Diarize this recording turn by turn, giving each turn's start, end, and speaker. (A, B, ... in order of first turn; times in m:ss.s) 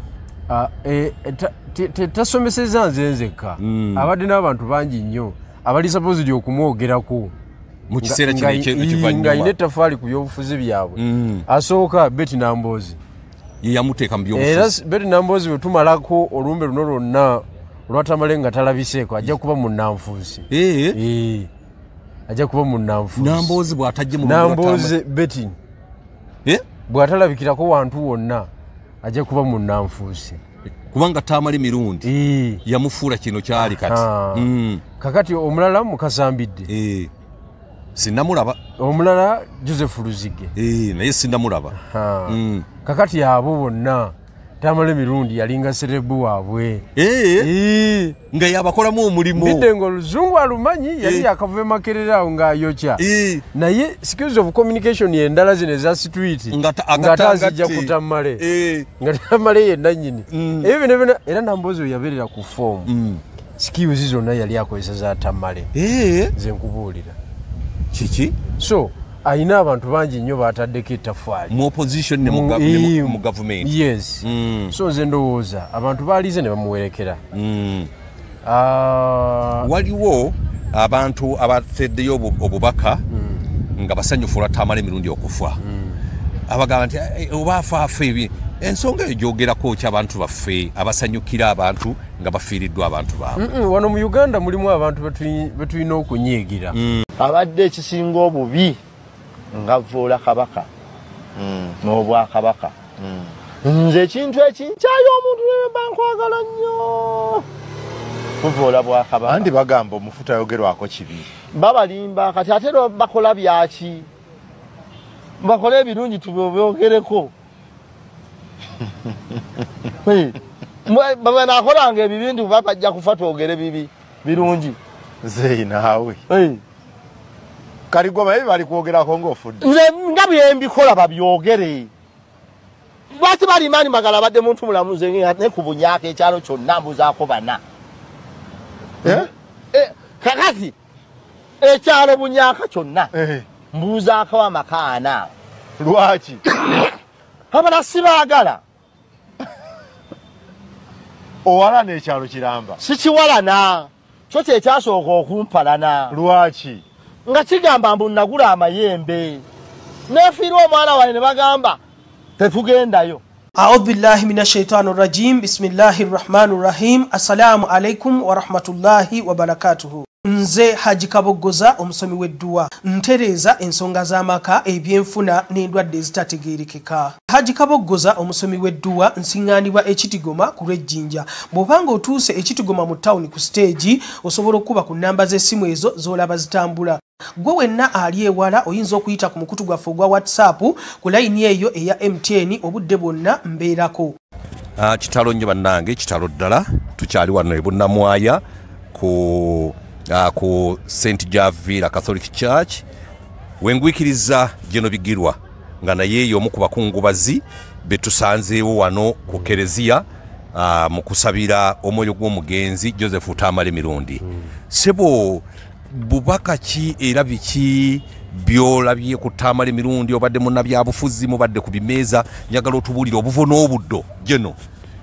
0:00.5-0:07.3 A
0:03.6-0:04.1 B
0:07.9-0:09.5 B
0:08.0-0:13.0 A
0:11.0-0:11.4 B
0:13.6-0:14.7 B
0:14.3-0:21.5 A
0:20.5-0:21.0 B
0:22.3-0:23.6 A
0:23.2-0:25.0 B
0:24.2-0:25.6 A
0:26.9-0:28.5 A
0:29.0-0:30.4 A
0:30.9-0:32.1 B
0:32.0-0:32.6 A
0:32.6-0:34.8 B
0:33.6-0:36.7 A
0:36.7-0:37.1 B
0:37.9-0:38.6 B
0:38.8-0:40.5 A
0:40.5-0:41.7 B
0:41.7-0:46.8 A
0:42.3-0:42.7 B
0:47.0-0:47.5 B
0:47.4-0:48.2 A
0:48.3-0:49.7 B
0:49.3-0:58.4 A
0:51.0-0:51.3 B
0:53.0-0:53.4 B
0:56.5-0:58.9 B
0:59.0-1:02.9 A
1:00.3-1:00.7 B
1:02.8-1:03.2 B
1:03.6-1:05.7 A
1:05.7-1:06.3 B
1:06.3-1:07.2 A
1:07.9-1:08.4 B
1:08.6-1:11.5 A
1:11.5-1:14.8 B
1:12.2-1:17.2 A
1:17.3-1:17.9 B
1:18.4-1:19.7 A
1:19.6-1:23.0 B
1:23.1-1:23.4 A
1:23.8-1:25.6 B
1:25.6-1:26.0 A
1:26.5-1:33.4 B
1:33.4-1:36.8 A
1:36.7-1:37.0 B
1:37.2-1:38.8 C
1:39.5-1:40.7 C
1:41.4-1:41.8 D
1:41.8-1:42.8 C
1:43.0-1:43.3 D
1:43.6-1:47.4 C
1:48.4-1:49.5 C
1:49.3-1:51.3 D
1:51.5-1:54.1 C
1:55.4-1:57.3 C
2:00.0-2:00.4 C
2:00.9-2:04.8 C
2:05.2-2:06.2 D
2:06.3-2:06.6 C
2:07.9-2:09.6 D
2:09.6-2:11.9 C
2:13.1-2:17.6 C
2:19.0-2:19.3 D
2:19.0-2:20.7 C
2:21.6-2:23.1 C
2:23.1-2:23.4 D
2:23.7-2:25.3 C
2:25.8-2:26.4 D
2:27.5-2:28.6 C
2:31.4-2:32.8 D
2:32.8-2:36.2 C
2:36.1-2:36.8 D
2:37.2-2:39.4 C
2:40.1-2:41.8 C
2:42.4-2:43.2 C
2:43.6-3:14.1 E
3:14.8-3:22.8 B
3:23.6-3:44.6 B